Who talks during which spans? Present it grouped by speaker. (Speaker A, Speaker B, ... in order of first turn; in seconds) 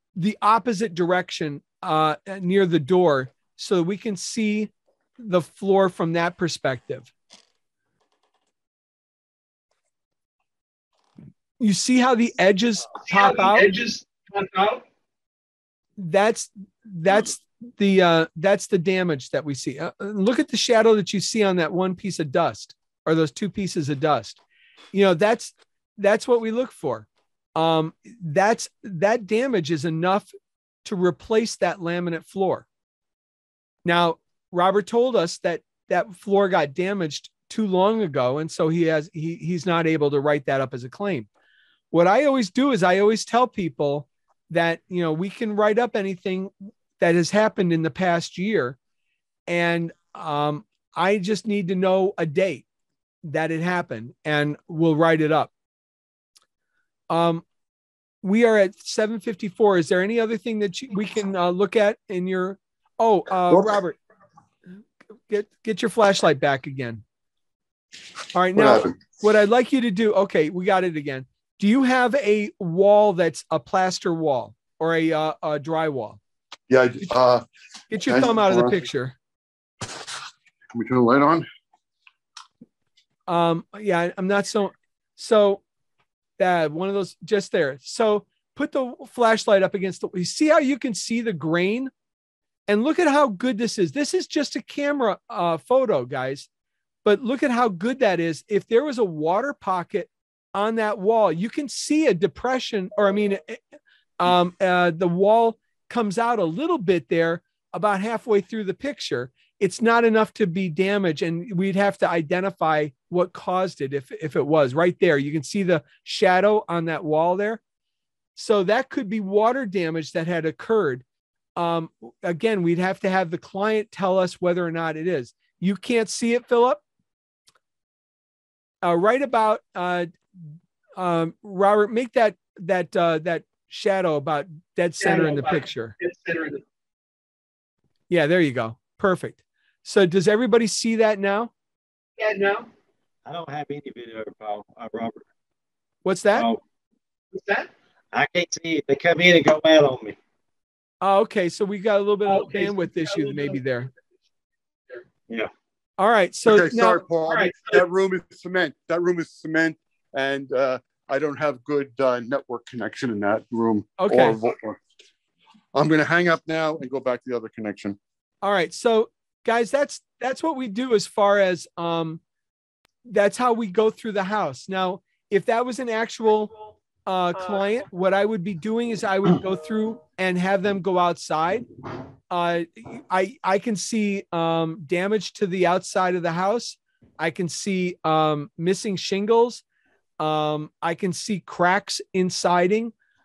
Speaker A: 0.1-7.1, 11.6-13.7, 16.0-24.4, 24.9-30.3, 30.8-32.6, 33.8-41.3, 41.9-48.8, 49.5-52.6, 53.2-55.5, 57.1-57.4, 58.2-64.0, 65.3-67.0, 68.3-76.2, 77.9-79.1, 83.3-85.6, 86.4-91.9, 92.7-96.5, 97.0-103.6, 104.2-117.6, 118.3-121.0, 121.6-126.8, 128.8-130.1, 131.0-136.0, 138.1-141.5, 146.0-146.5, 151.0-153.9, 156.0-157.1, 164.0-164.4, 168.4-172.2, 173.1-176.5, 177.1-181.7, 182.3-189.6, 190.2-192.9
Speaker B: 13.1-14.8, 135.0-136.6, 142.2-142.7, 147.4-147.7, 152.4-153.5
Speaker C: 68.5-69.0, 76.7-77.4, 78.0-78.8, 80.7-81.5, 156.4-164.8, 165.7-168.0
Speaker D: 143.2-145.2, 146.3-146.6, 148.1-150.2